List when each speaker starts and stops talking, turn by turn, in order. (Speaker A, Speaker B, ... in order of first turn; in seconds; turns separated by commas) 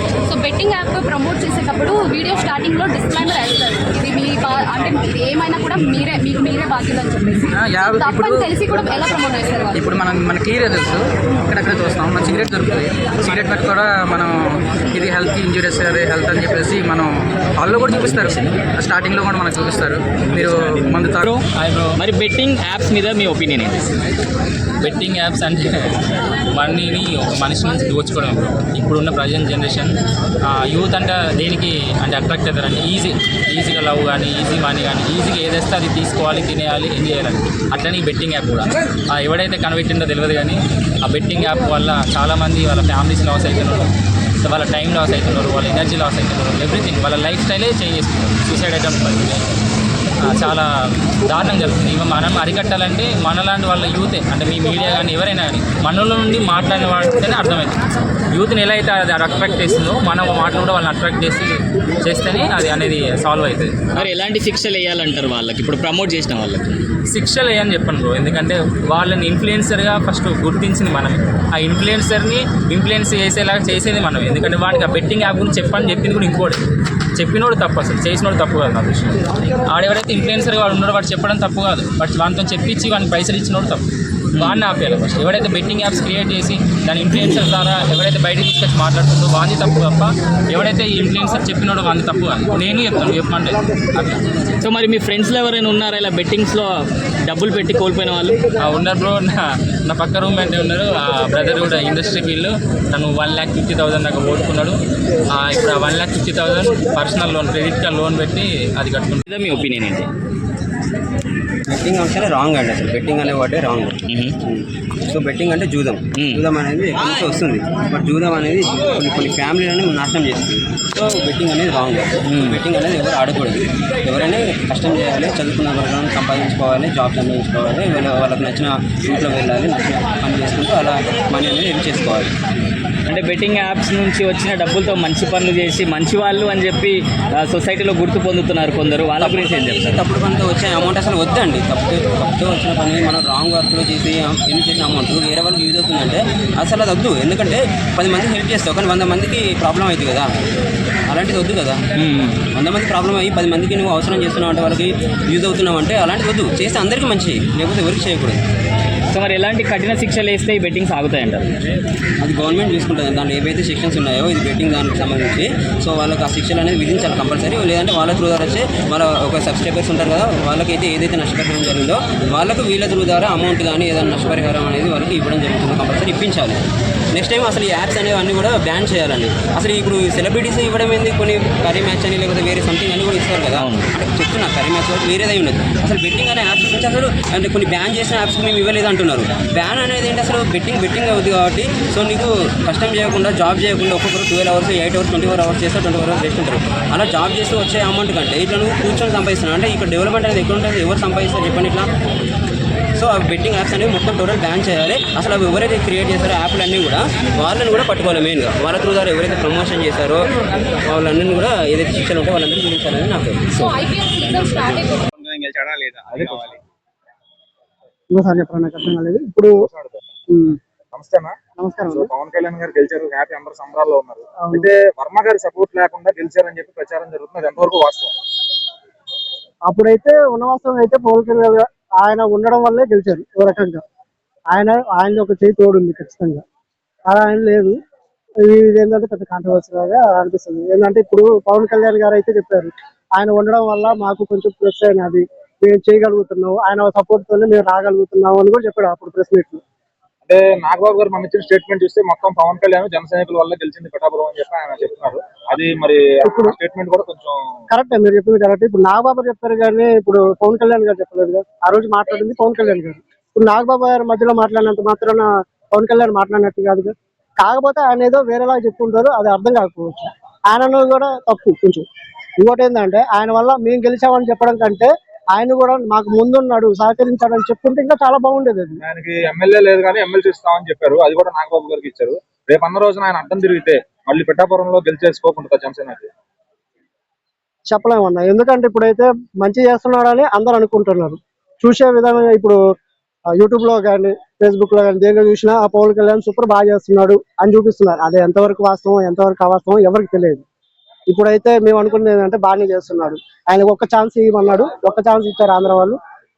Speaker A: 0.2-9.8, Speaker B: 7.4-8.9, Speaker B: 9.7-21.3, Speaker C: 17.9-18.6, Speaker C: 20.3-21.4, Speaker D: 21.5-21.9, Speaker C: 21.9-23.9, Speaker D: 24.8-25.9, Speaker D: 26.5-43.9, Speaker D: 44.4-49.5, Speaker D: 50.2-57.7, Speaker D: 58.3-64.1, Speaker C: 63.9-66.7, Speaker D: 67.1-76.6, Speaker D: 77.2-83.8, Speaker D: 84.3-94.2, Speaker C: 84.4-84.6, Speaker C: 94.6-98.4, Speaker D: 98.6-104.8, Speaker D: 105.3-109.2, Speaker C: 109.3-110.1, Speaker E: 111.7-132.3, Speaker C: 114.1-114.3, Speaker C: 116.1-116.4, Speaker C: 122.3-122.6, Speaker C: 133.1-140.0, Speaker E: 139.2-150.3, Speaker E: 151.1-151.8, Speaker C: 151.9-152.4, Speaker E: 152.5-158.4, Speaker C: 159.1-161.5, Speaker E: 162.2-176.6, Speaker E: 177.1-201.9, Speaker C: 183.6-183.8, Speaker E: 202.9-210.3, Speaker E: 210.8-213.6, Speaker C: 213.5-213.8, Speaker A: 213.6-215.1, Speaker F: 216.1-216.6, Speaker G: 218.1-219.6, Speaker F: 219.6-220.0, Speaker G: 220.3-220.6, Speaker F: 220.9-221.3, Speaker G: 221.6-222.1, Speaker F: 221.9-228.1, Speaker G: 224.4-224.7, Speaker G: 229.7-233.8, Speaker G: 234.5-236.4, Speaker G: 237.1-237.8, Speaker G: 238.4-249.6, Speaker F: 250.2-257.6, Speaker G: 256.2-256.6, Speaker G: 257.7-271.9, Speaker G: 272.4-278.8, Speaker F: 278.8-286.1, Speaker G: 287.7-292.6, Speaker G: 293.3-300.4, Speaker G: 301.1-306.0